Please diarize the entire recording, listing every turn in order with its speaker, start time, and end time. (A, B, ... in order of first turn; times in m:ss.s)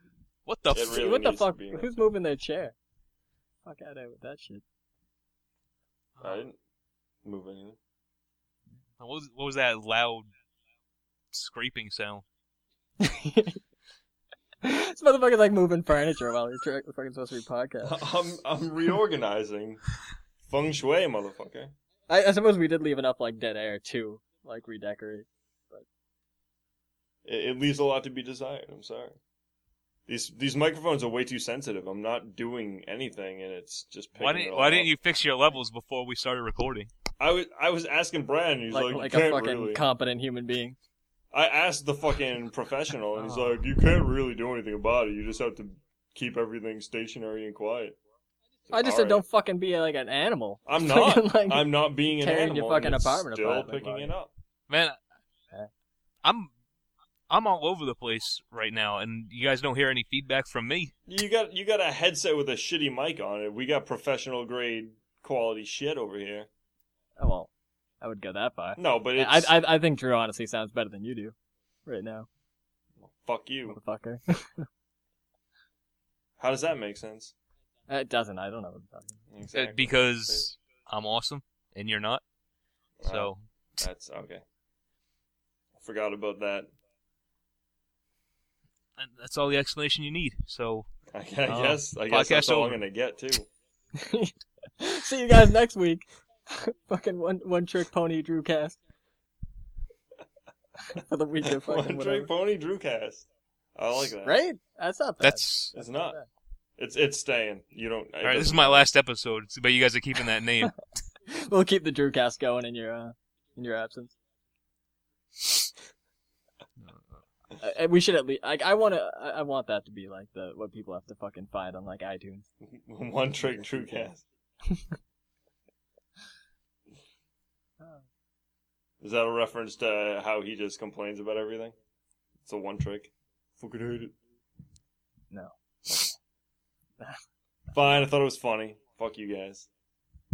0:00.4-0:01.0 A
0:00.7-0:01.9 B
0:00.8-0:02.7 C
0:03.6-0:04.6 C
0:06.2-0:06.6 B
0:07.2-0:07.8 B
0:09.0-0:10.3 A
0:11.3-0:12.2 A
0:13.0-0:13.6 C
0:14.6-0:18.0 C
0:17.8-0:19.8 B
0:20.5-0:21.7 B
0:22.1-0:25.8 C
0:27.2-0:29.2 B
0:30.1-0:34.9 B
0:34.2-0:36.9 A
0:37.2-0:39.8 B
0:38.7-0:40.8 C
0:41.3-0:48.0 B
0:43.2-0:43.6 A
0:48.7-0:49.2 B
0:48.7-0:54.1 C
0:50.7-0:54.3 B
0:54.7-0:55.0 A
0:56.2-0:56.5 A
0:57.3-1:00.9 A
1:01.1-1:06.5 B
1:07.2-1:07.5 C
1:08.0-1:11.3 C
1:08.8-1:09.5 B
1:11.8-1:12.3 C
1:13.0-1:13.8 B
1:13.7-1:14.7 C
1:16.4-1:17.3 B
1:17.9-1:19.2 C
1:19.3-1:20.5 B
1:19.5-1:22.2 A
1:23.0-1:24.4 B
1:23.0-1:23.4 A
1:25.8-1:26.7 B
1:29.0-1:30.9 A
1:31.1-1:33.5 B
1:31.4-1:32.8 A
1:33.9-1:38.8 C
1:40.8-1:42.3 C
1:41.4-1:44.4 B
1:44.2-1:46.2 C
1:45.2-1:45.7 A
1:45.7-1:46.2 B
1:46.8-1:48.9 B
1:48.2-1:50.8 A
1:51.3-1:54.1 C
1:57.6-2:02.4 C
2:02.6-2:04.2 B
2:04.7-2:04.9 C
2:09.0-2:11.7 B
2:12.4-2:14.1 B
2:15.3-2:16.0 C
2:17.7-2:19.7 B